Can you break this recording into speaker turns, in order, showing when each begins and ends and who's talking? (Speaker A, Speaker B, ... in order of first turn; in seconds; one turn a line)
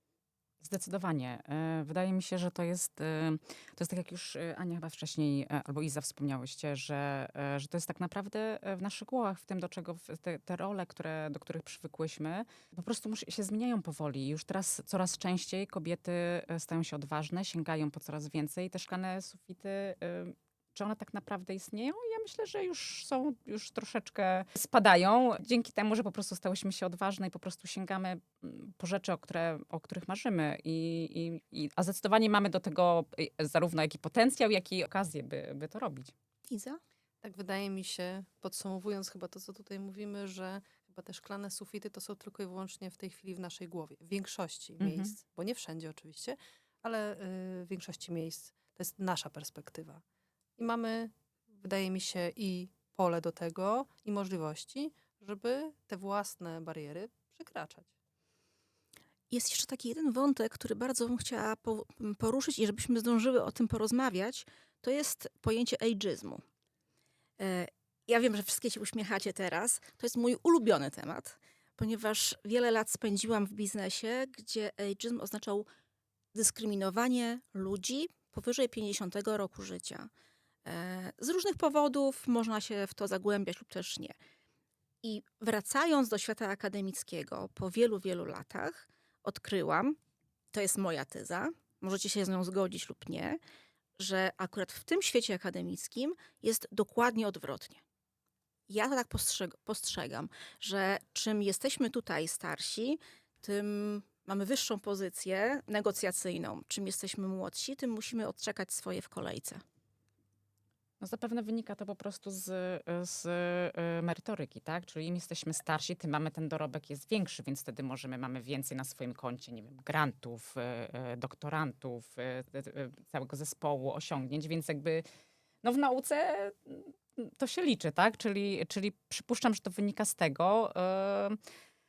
Speaker A: 0.6-36.1
Speaker B: 36.5-36.8
Speaker C: 37.2-50.0
Speaker A: 44.8-45.1
Speaker C: 50.6-57.9
Speaker B: 59.3-66.4
Speaker B: 67.4-75.7
Speaker B: 76.3-80.1
Speaker B: 80.6-84.2
Speaker B: 85.0-90.0
Speaker B: 90.5-93.4
Speaker B: 94.0-97.8
Speaker B: 98.7-109.6
Speaker A: 111.0-125.0
Speaker A: 125.6-131.4